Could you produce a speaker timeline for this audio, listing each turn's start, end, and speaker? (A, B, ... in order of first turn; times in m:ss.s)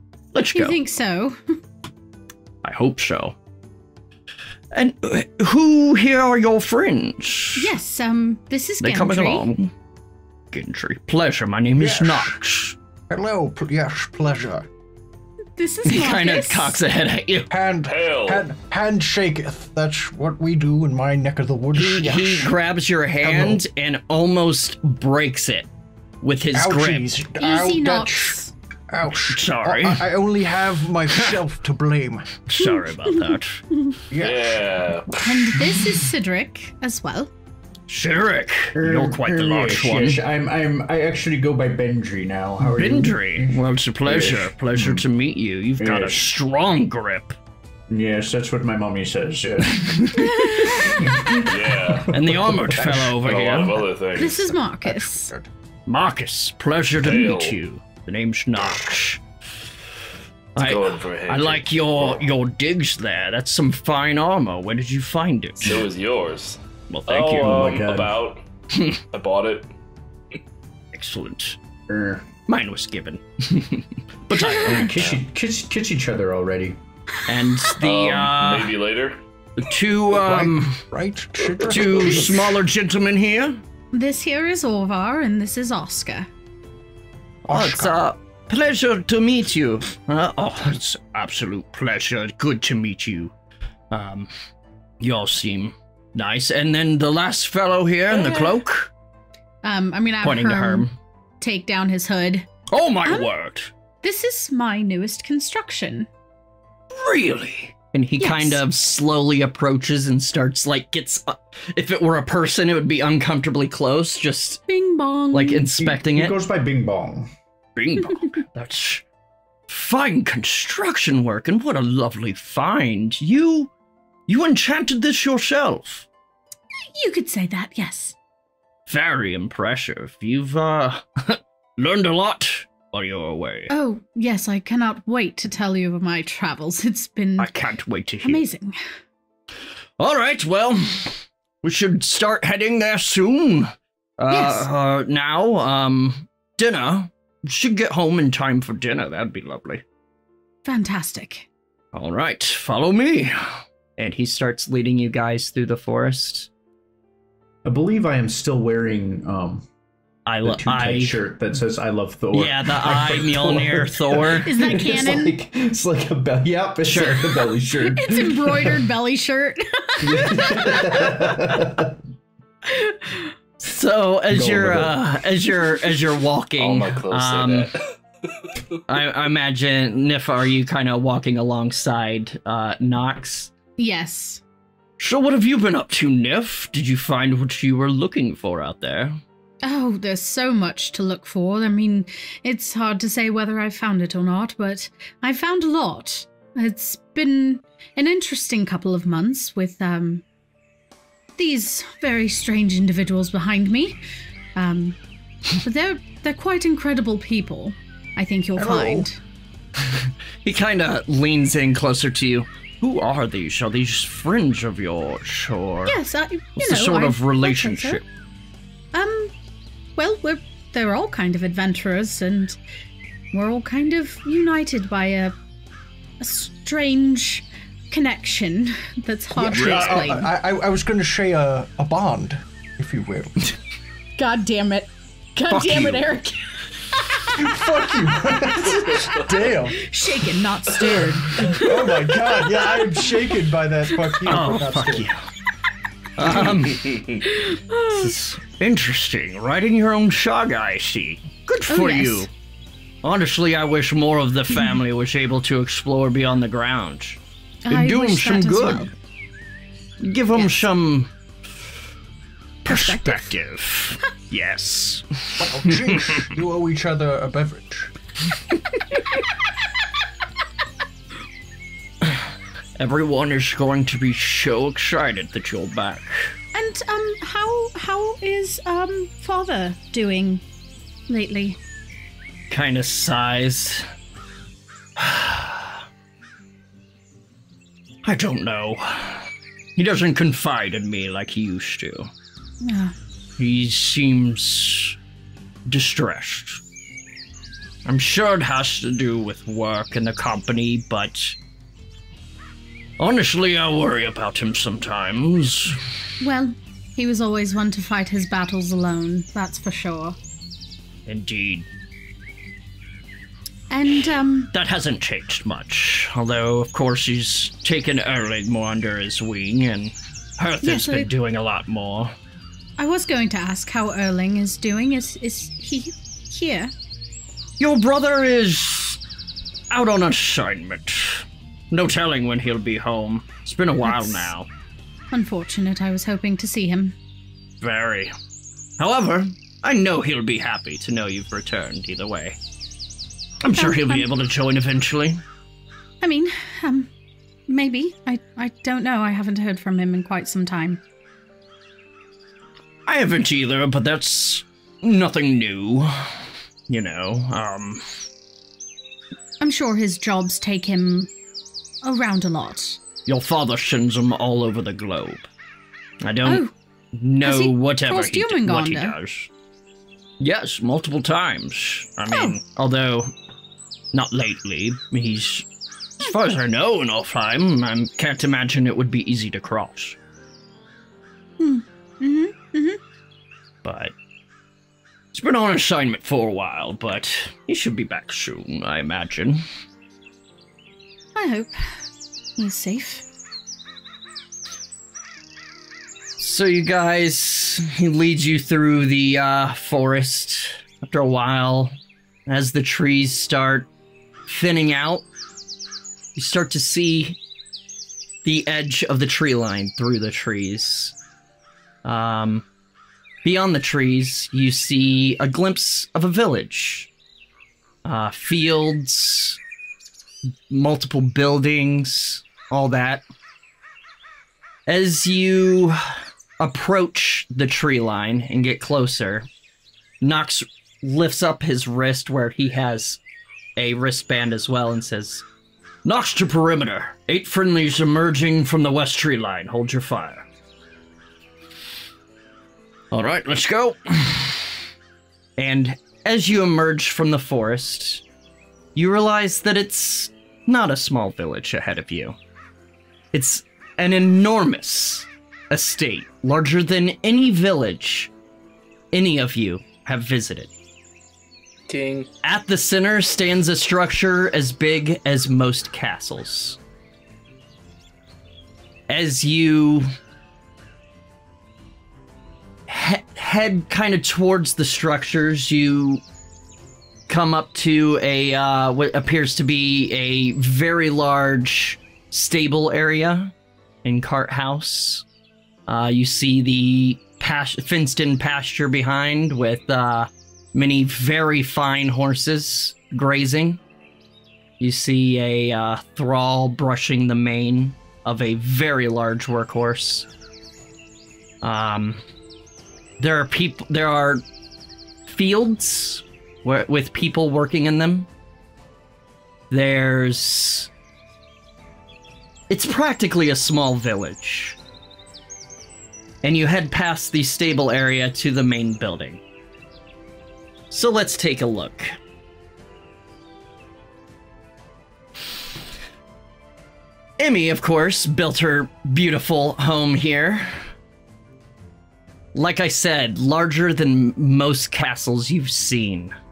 0:00.3-0:00.8 A
0:00.5-0:01.6 B
0:02.6-0:03.4 A
0:04.7-0:07.7 A
0:07.6-0:09.5 B
0:08.8-0:09.7 A
0:10.5-0:12.8 A
0:11.8-0:12.4 C
0:13.1-0:14.7 C
0:15.6-0:16.8 B
0:15.8-0:17.5 A
0:17.5-0:22.5 C
0:17.8-0:18.5 D
0:21.7-0:25.7 A
0:23.2-0:23.6 C
0:26.2-0:27.1 A
0:26.5-0:28.4 C
0:27.4-0:28.5 B
0:28.9-0:32.4 C
0:29.3-0:30.1 A
0:32.5-0:33.6 A
0:32.6-0:34.0 B
0:34.1-0:34.8 C
0:34.2-0:35.3 D
0:35.2-0:37.3 B
0:35.3-0:35.8 C
0:37.9-0:40.2 A
0:38.7-0:45.0 E
0:42.6-0:47.4 A
0:45.8-0:46.3 E
0:47.9-0:53.3 E
0:50.0-0:51.2 A
0:50.2-0:50.8 B
0:51.4-0:52.1 D
0:52.1-0:53.8 A
0:53.2-0:54.5 D
0:54.2-0:55.3 B
0:54.8-0:55.4 C
0:55.9-0:59.2 A
0:57.0-0:57.6 D
1:00.5-1:05.8 A
1:00.6-1:02.2 D
1:05.6-1:08.4 D
1:06.9-1:07.8 A
1:07.4-1:08.2 E
1:08.7-1:09.0 A
1:09.1-1:09.7 D
1:10.9-1:11.6 A
1:11.9-1:12.3 E
1:12.5-1:15.0 A
1:14.3-1:14.8 B
1:14.6-1:16.8 E
1:17.2-1:18.8 A
1:17.8-1:19.2 D
1:19.6-1:20.8 A
1:20.2-1:22.5 C
1:21.6-1:23.6 A
1:21.9-1:22.3 E
1:23.9-1:26.3 B
1:27.5-1:33.3 A
1:27.5-1:28.0 C
1:33.9-1:34.3 A
1:35.0-1:38.9 A
1:38.1-1:38.5 B
1:39.6-1:40.9 B
1:40.2-1:40.9 A
1:41.4-1:42.5 B
1:42.7-1:43.7 A
1:44.0-1:46.1 B
1:46.9-1:54.6 A
1:48.2-1:48.6 B
1:54.7-1:55.7 B
1:55.3-1:56.4 A
1:55.8-1:57.3 E
1:57.8-1:59.0 A
1:59.7-2:03.7 A
2:04.3-2:06.1 A
2:06.8-2:08.1 B
2:08.9-2:13.7 A
2:13.7-2:17.5 B
2:17.4-2:18.4 A
2:18.2-2:18.8 B
2:20.0-2:29.8 A
2:24.3-2:24.7 B
2:30.6-2:31.5 B
2:31.9-2:36.5 A
2:37.6-2:39.6 E
2:40.2-2:41.1 A
2:40.4-2:48.8 E
2:42.3-2:44.6 A
2:44.4-2:45.3 B
2:46.8-2:47.4 A
2:47.8-2:51.4 B
2:50.0-2:51.9 E
2:52.6-2:53.3 B
2:53.6-2:57.7 A
2:54.3-2:55.0 E
2:56.6-2:57.8 D
2:58.9-3:03.5 A
3:03.8-3:04.4 B
3:05.0-3:09.2 A
3:09.6-3:20.2 B
3:21.4-3:24.0 B
3:24.6-3:25.0 B
3:25.5-3:29.2 B
3:28.6-3:29.0 C
3:30.4-3:36.0 A
3:35.8-3:38.0 B
3:36.6-3:38.0 A
3:38.9-3:39.3 B
3:40.0-3:42.6 B
3:43.3-3:45.3 B
3:46.2-3:50.3 B
3:49.3-3:53.5 C
3:49.6-3:50.0 A
3:54.2-3:57.2 B
3:55.5-3:56.2 A
3:57.3-3:59.8 C
3:58.8-4:03.2 B
4:00.9-4:05.1 C
4:04.2-4:05.2 A
4:06.2-4:07.1 A
4:06.7-4:07.2 D
4:07.2-4:08.1 B
4:07.9-4:12.3 A
4:11.7-4:12.3 B
4:13.0-4:18.8 A
4:17.6-4:18.9 B
4:20.0-4:21.1 A
4:20.4-4:20.6 B
4:22.6-4:26.2 A
4:22.7-4:23.2 B
4:25.4-4:27.9 C
4:32.0-4:36.4 A
4:36.5-4:40.4 B
4:41.1-4:41.6 B
4:42.5-4:43.9 A
4:45.0-4:45.8 A
4:48.0-4:52.1 A
4:52.6-4:52.9 B
4:53.4-4:55.0 A
4:55.7-4:56.6 A
4:57.8-5:01.4 A
5:03.0-5:05.8 A
5:06.2-5:10.2 B
5:11.1-5:11.7 A
5:13.7-5:14.5 B
5:14.5-5:22.1 A
5:20.6-5:21.1 B
5:22.8-5:26.7 B
5:27.6-5:29.0 A
5:29.7-5:34.5 A
5:35.1-5:36.9 B
5:37.6-5:38.1 A
5:38.8-5:42.4 A
5:43.4-5:45.2 A
5:43.6-5:44.1 B
5:46.0-5:46.9 B
5:47.5-5:50.8 B
5:52.8-5:57.8 A
5:59.4-6:01.1 B
6:01.8-6:02.8 B
6:03.0-6:05.3 A
6:06.0-6:09.3 A
6:06.2-6:06.5 B
6:07.2-6:08.9 B
6:10.2-6:13.1 A
6:13.9-6:15.5 A
6:16.0-6:20.0 A
6:21.4-6:22.8 B
6:23.6-6:23.9 A
6:25.1-6:29.4 A
6:31.1-6:31.8 B
6:32.4-6:33.0 B
6:36.2-6:41.8 A
6:42.3-6:43.7 A
6:44.3-6:45.0 A
6:46.1-6:47.2 A
6:48.2-6:50.9 A
6:51.8-6:52.4 A
6:53.2-6:56.9 A
6:57.8-6:59.4 A
7:00.5-7:03.0 A
7:04.7-7:09.3 A
7:10.0-7:13.0 A
7:13.6-7:15.2 A
7:15.8-7:20.2 A
7:22.9-7:24.6 A
7:25.4-7:28.0 A
7:28.7-7:32.2 A
7:33.1-7:38.1 A
7:38.9-7:40.5 A
7:41.7-7:42.1 D
7:42.2-7:46.6 A
7:48.9-7:49.9 A
7:52.7-7:56.0 A
7:57.1-8:03.3 A
8:03.8-8:05.0 A
8:05.7-8:13.6 A
8:14.6-8:20.1 A
8:21.4-8:22.0 A
8:23.0-8:24.2 A
8:25.0-8:28.1 A
8:29.5-8:30.7 A
8:32.5-8:34.6 A
8:36.2-8:39.2 A
8:40.7-8:42.0 A
8:47.2-8:50.6 A
8:52.3-8:56.1 A